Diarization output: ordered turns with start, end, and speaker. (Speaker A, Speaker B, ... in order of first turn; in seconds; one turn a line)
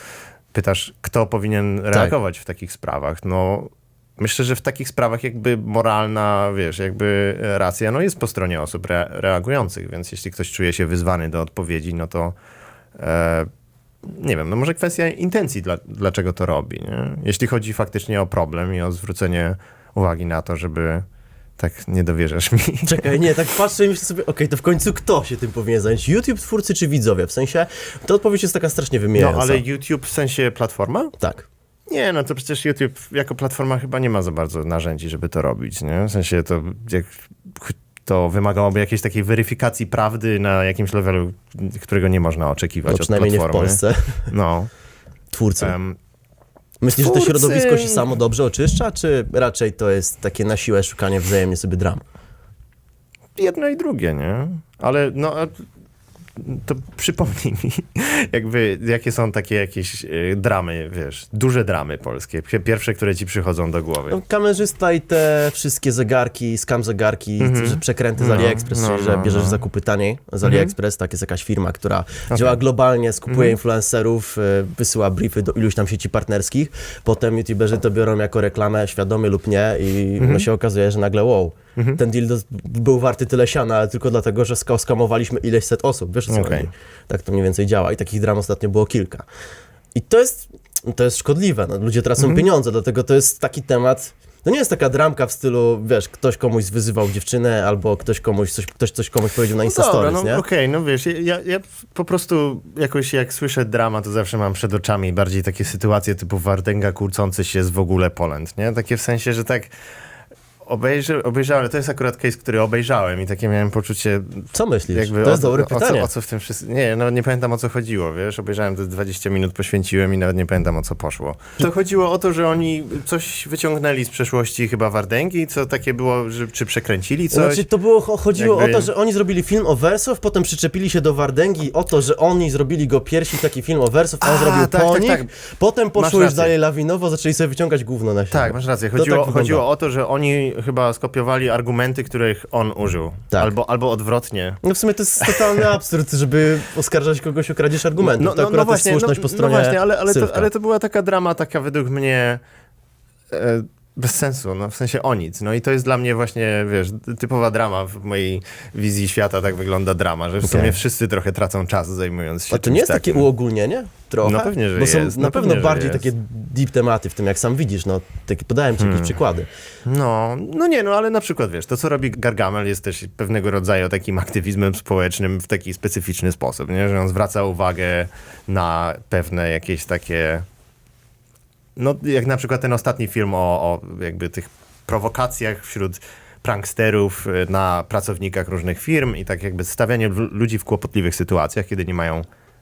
Speaker A: 0.5-12.3
Speaker A: 13.0-13.5
Speaker A: 14.0-21.0
Speaker A: 21.6-23.1
Speaker B: 22.9-29.6
Speaker A: 29.1-31.1
Speaker B: 31.2-31.5
Speaker A: 31.9-44.7
Speaker B: 42.9-44.3
Speaker B: 45.3-45.8
Speaker A: 45.6-46.0
Speaker B: 46.8-52.0
Speaker A: 47.0-48.1
Speaker A: 53.4-55.6
Speaker A: 56.4-64.2
Speaker B: 64.1-89.2
Speaker A: 67.4-69.6
Speaker A: 70.4-70.7
Speaker A: 72.3-72.6
Speaker A: 73.3-73.5
Speaker A: 80.2-80.5
Speaker A: 86.3-86.7
Speaker B: 89.9-100.4
Speaker A: 92.2-92.5
Speaker A: 99.6-109.7
Speaker A: 110.6-127.6
Speaker B: 114.5-116.1
Speaker B: 127.3-139.6
Speaker A: 128.3-128.9
Speaker A: 134.2-135.3
Speaker A: 136.0-136.5
Speaker A: 138.3-144.6
Speaker B: 144.6-150.5
Speaker A: 145.2-145.6
Speaker A: 148.0-152.4
Speaker A: 153.3-163.3
Speaker B: 160.4-160.8
Speaker B: 162.5-169.5
Speaker A: 164.2-166.1
Speaker A: 168.8-169.2
Speaker A: 169.8-180.4
Speaker A: 181.8-192.2